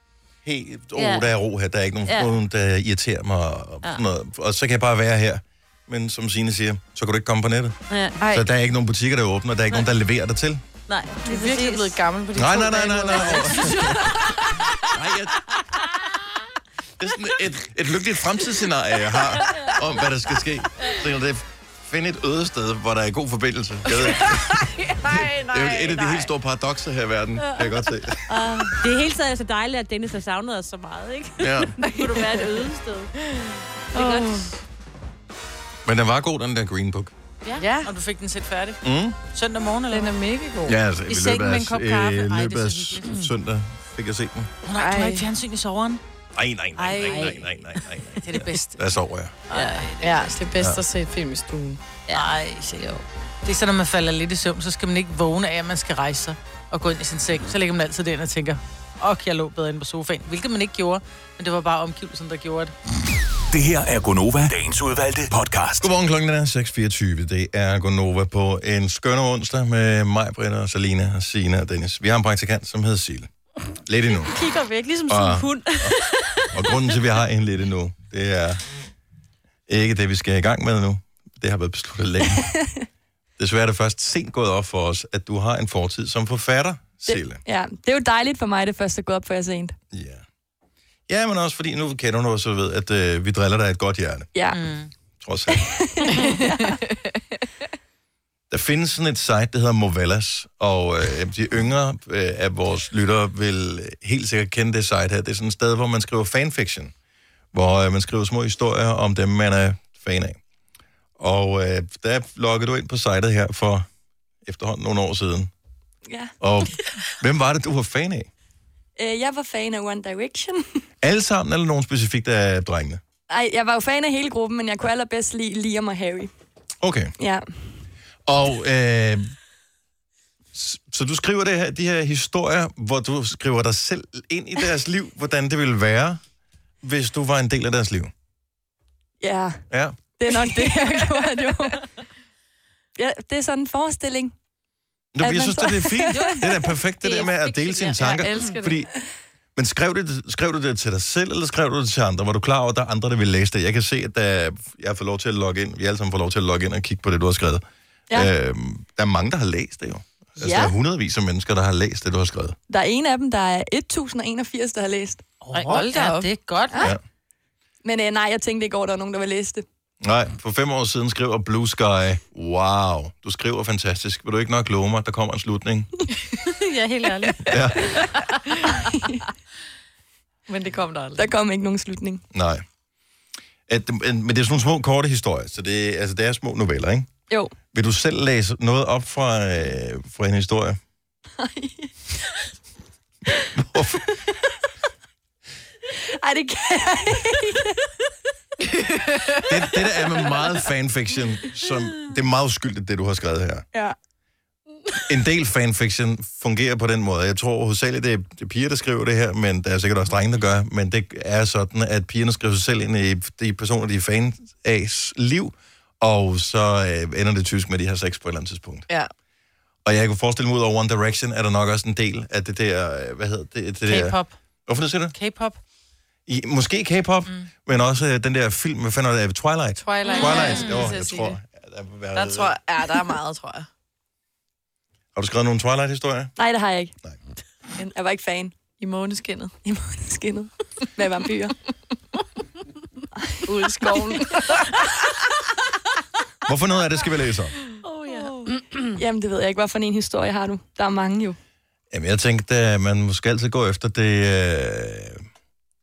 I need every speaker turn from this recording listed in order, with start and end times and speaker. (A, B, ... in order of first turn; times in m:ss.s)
0:00.4-0:10.6 A
0:01.0-0:01.3 B
0:02.1-0:02.3 B
0:07.9-0:08.2 B
0:08.2-0:08.5 C
0:10.9-0:12.0 B
0:11.2-0:14.7 C
0:12.3-0:14.2 A
0:13.4-0:13.8 B
0:14.9-0:15.5 A
0:17.0-0:28.5 A
0:23.9-0:26.3 C
0:28.3-0:33.1 B
0:31.4-0:31.8 A
0:31.8-0:32.6 C
0:33.9-0:34.6 B
0:33.9-0:34.5 C
0:35.8-0:37.1 A
0:37.6-0:37.9 C
0:37.8-0:40.1 D
0:38.8-0:39.2 A
0:39.9-0:40.8 C
0:40.6-0:44.5 A
0:41.1-0:43.3 D
0:44.6-0:46.0 D
0:44.8-0:45.3 C
0:46.3-0:49.4 A
0:46.8-0:47.5 B
0:48.2-0:48.8 D
0:49.5-0:50.3 B
0:49.5-0:51.8 C
0:49.6-0:50.2 D
0:50.6-0:50.8 A
0:52.1-0:52.3 B
0:52.1-1:02.7 D
1:03.5-1:05.9 E
1:05.8-1:13.3 A
1:13.8-1:14.3 A
1:14.2-1:16.9 B
1:15.1-1:16.0 A
1:16.5-1:18.6 A
1:19.7-1:22.5 A
1:22.5-1:22.8 F
1:23.4-1:27.4 A
1:27.1-1:29.7 F
1:29.9-1:30.2 A
1:31.1-1:34.3 A
1:34.5-1:34.9 D
1:35.2-1:35.9 A
1:35.5-1:36.8 F
1:36.1-1:37.1 C
1:38.5-1:46.9 A
1:47.5-1:50.4 A
1:51.2-1:53.9 A
1:54.4-1:55.5 A
1:56.0-1:56.3 F
1:56.4-1:58.3 A
1:59.0-2:00.6 F
2:01.0-2:03.0 A
2:03.3-2:06.3 F
2:06.8-2:07.1 A
2:07.2-2:07.5 F
2:08.2-2:09.3 A
2:10.5-2:16.2 A
2:16.8-2:18.1 A
2:19.2-2:19.6 F
2:19.7-2:20.0 A
2:20.2-2:21.8 F
2:20.5-2:21.4 C
2:23.0-2:24.3 F
2:25.1-2:28.9 A
2:25.2-2:26.4 F
2:27.0-2:28.0 B
2:27.9-2:28.9 C
2:29.6-2:42.6 A
2:40.4-2:40.7 F
2:42.7-2:45.2 F
2:45.4-2:46.9 D
2:45.5-2:46.3 C
2:47.8-2:49.6 F
2:50.0-2:55.9 A
2:56.4-2:58.0 B
2:57.4-2:58.0 A
2:58.7-2:59.2 F
3:00.5-3:01.2 C
3:01.2-3:02.2 F
3:02.3-3:02.6 A
3:03.7-3:07.1 A
3:07.7-3:10.8 A
3:11.4-3:11.9 F
3:13.5-3:14.2 A
3:15.9-3:17.9 F
3:18.7-3:19.4 C
3:19.4-3:23.6 A
3:25.0-3:38.9 A
3:39.8-3:45.1 A
3:43.9-3:44.4 D
3:45.1-3:45.6 D
3:46.3-3:52.6 A
3:49.8-3:51.4 C
3:52.1-3:53.7 C
3:55.1-3:56.3 A
3:56.4-3:56.9 F
3:57.8-3:58.6 F
3:58.8-3:59.5 C
3:59.6-4:01.6 F
4:03.2-4:04.4 F
4:03.4-4:05.0 C
4:06.4-4:07.6 A
4:07.9-4:08.9 B
4:09.0-4:11.4 F
4:11.9-4:15.2 A